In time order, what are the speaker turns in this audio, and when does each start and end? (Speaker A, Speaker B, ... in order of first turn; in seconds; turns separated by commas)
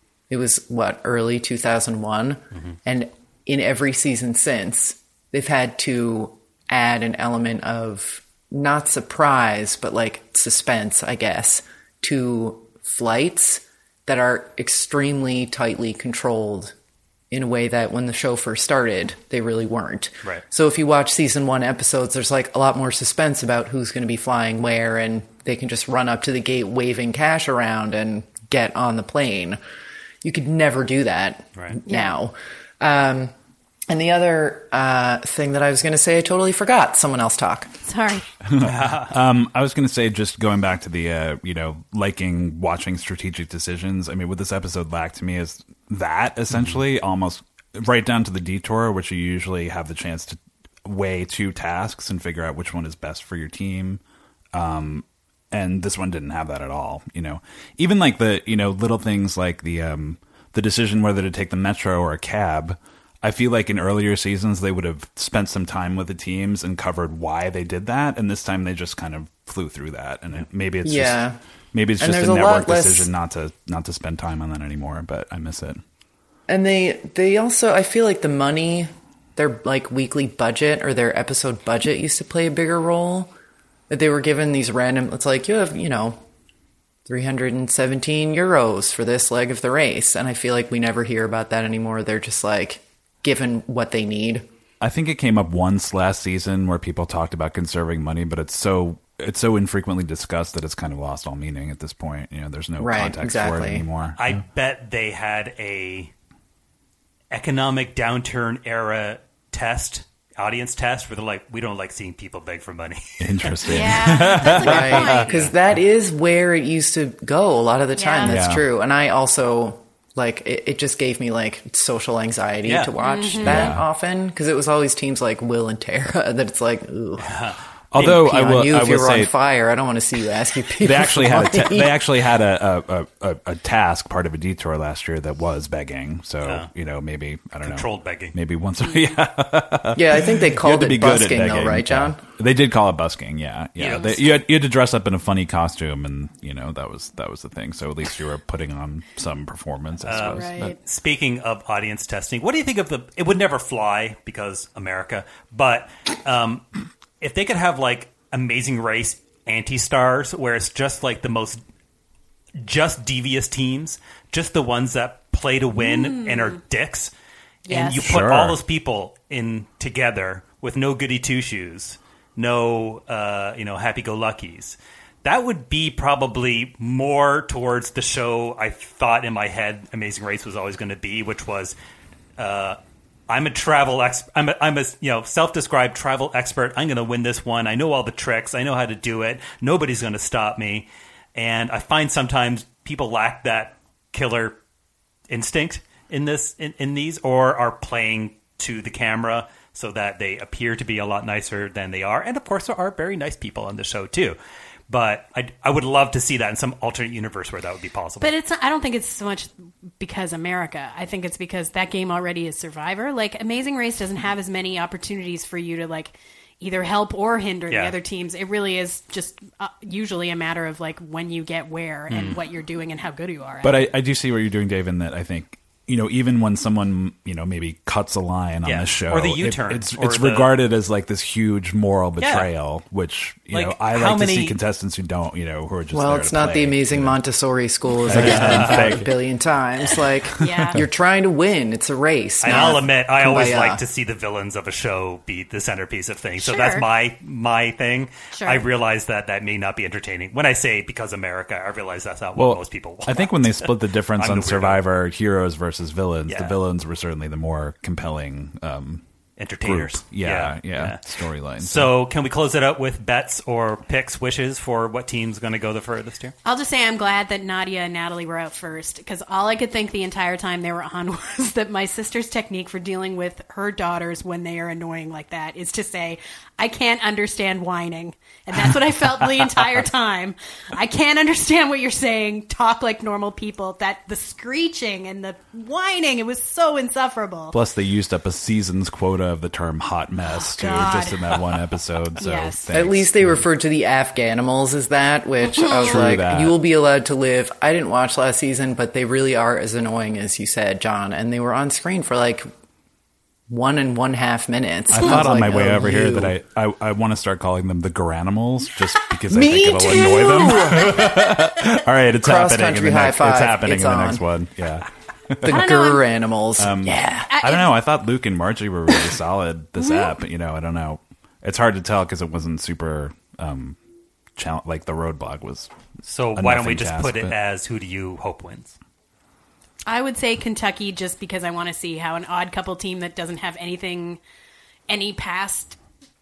Speaker A: 0.3-16.7, Speaker A: 17.3-29.6, Speaker A: 30.2-33.3, Speaker B: 31.9-32.1, Speaker A: 33.9-37.7, Speaker B: 37.8-38.2, Speaker C: 38.4-54.0, Speaker D: 38.6-39.1, Speaker C: 54.5-71.2, Speaker A: 70.8-71.4, Speaker C: 71.7-75.8, Speaker A: 72.0-73.1, Speaker A: 76.5-83.3, Speaker A: 83.9-86.2, Speaker A: 87.0-94.4, Speaker C: 94.8-104.3, Speaker A: 102.8-103.8, Speaker D: 104.2-106.1, Speaker D: 107.3-115.5, Speaker C: 113.2-115.2, Speaker B: 113.6-115.3, Speaker A: 114.6-127.4, Speaker B: 118.0-118.4, Speaker C: 118.2-118.7, Speaker D: 122.6-122.9, Speaker B: 123.0-123.7, Speaker C: 123.4-123.8, Speaker D: 127.2-128.1, Speaker C: 127.9-129.3, Speaker A: 128.0-132.0, Speaker C: 130.8-150.8, Speaker D: 136.4-136.7, Speaker D: 137.6-138.3, Speaker A: 139.9-142.2, Speaker D: 143.8-144.2, Speaker D: 150.1-156.7, Speaker B: 150.2-150.8, Speaker D: 157.2-161.6, Speaker D: 162.6-167.1, Speaker B: 165.8-166.6, Speaker B: 167.7-168.0, Speaker D: 167.7-181.8, Speaker C: 168.0-168.6, Speaker D: 182.4-182.8, Speaker D: 183.3-194.6, Speaker D: 195.3-204.4, Speaker D: 204.9-208.3, Speaker B: 208.2-223.8, Speaker D: 222.1-222.4, Speaker C: 223.6-237.2, Speaker D: 228.6-230.5, Speaker D: 232.2-232.5, Speaker D: 233.5-234.6, Speaker A: 235.9-243.8, Speaker C: 238.1-239.2, Speaker D: 238.1-239.0, Speaker C: 240.2-240.8, Speaker B: 240.4-240.8, Speaker D: 242.4-254.8, Speaker B: 242.5-242.8, Speaker B: 246.4-246.8, Speaker B: 248.3-248.6, Speaker C: 252.3-259.0, Speaker D: 256.3-256.6, Speaker D: 259.4-261.0, Speaker C: 259.6-261.9, Speaker D: 261.6-266.3, Speaker B: 266.4-287.6, Speaker C: 287.5-293.4, Speaker B: 290.3-291.2, Speaker B: 292.2-292.7, Speaker A: 292.7-302.5, Speaker C: 295.8-296.6, Speaker A: 303.5-306.3, Speaker C: 304.9-315.6, Speaker A: 309.3-311.5, Speaker A: 312.2-314.2, Speaker A: 315.4-317.3, Speaker B: 315.5-316.0, Speaker C: 316.6-323.8, Speaker B: 317.3-317.7, Speaker B: 319.8-320.1, Speaker C: 324.4-325.7, Speaker D: 326.0-328.8, Speaker C: 326.3-327.3, Speaker B: 329.9-334.2, Speaker B: 334.9-335.8